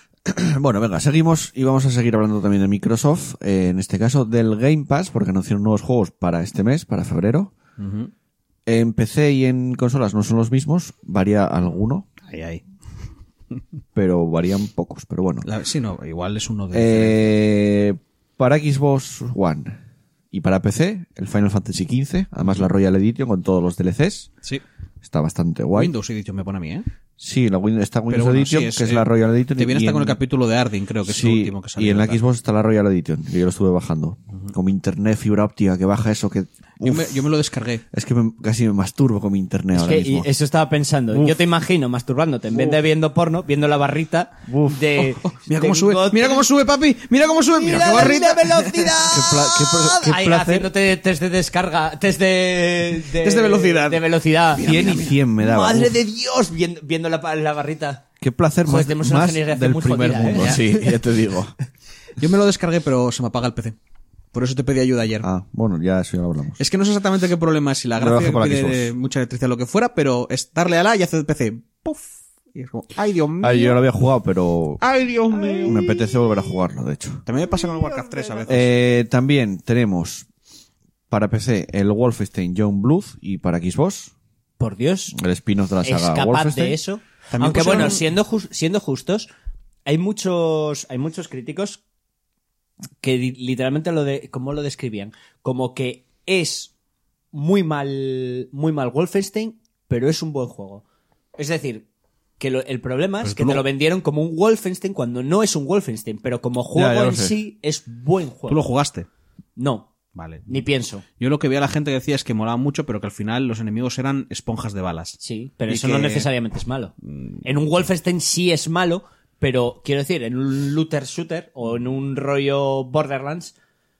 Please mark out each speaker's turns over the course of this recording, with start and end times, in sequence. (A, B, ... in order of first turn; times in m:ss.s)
0:00.2-0:07.5 A
0:07.8-0:08.1 B
0:08.6-0:12.0 A
0:12.2-0:12.6 B
0:13.9-0:15.5 A
0:15.4-0:17.2 B
0:16.7-0:24.3 A
0:25.0-0:25.9 A
0:25.7-0:26.8 B
0:27.2-0:30.2 A
0:28.1-0:32.2 B
0:31.0-0:37.2 A
0:36.8-0:37.8 B
0:37.9-0:40.3 A
0:39.7-0:46.5 C
0:41.1-0:41.4 A
0:44.5-0:44.9 A
0:45.0-0:49.0 B
0:47.5-0:58.0 C
0:49.1-0:50.7 A
0:53.1-0:54.0 B
0:54.6-0:56.0 A
0:54.6-0:55.0 B
0:58.2-1:01.5 A
0:58.6-1:00.9 C
1:00.4-1:00.6 B
1:02.2-1:03.8 B
1:04.3-1:05.3 B
1:05.2-1:06.6 A
1:06.6-1:13.8 B
1:08.0-1:08.9 A
1:13.4-1:14.8 A
1:14.8-1:15.8 B
1:15.6-1:17.2 A
1:17.2-1:18.7 B
1:18.4-1:20.3 A
1:21.1-1:24.1 A
1:24.6-1:25.2 C
1:25.1-1:26.8 A
1:25.8-1:29.3 C
1:27.3-1:28.0 B
1:29.8-1:31.8 C
1:33.0-1:36.7 C
1:37.3-1:40.8 C
1:41.4-1:41.8 C
1:42.4-1:48.6 C
1:43.2-1:43.6 B
1:46.7-1:47.4 A
1:48.5-1:49.1 B
1:49.6-1:49.9 C
1:50.1-1:50.5 B
1:50.5-1:51.0 C
1:51.2-1:56.3 B
1:55.2-2:03.5 C
1:57.1-1:57.4 B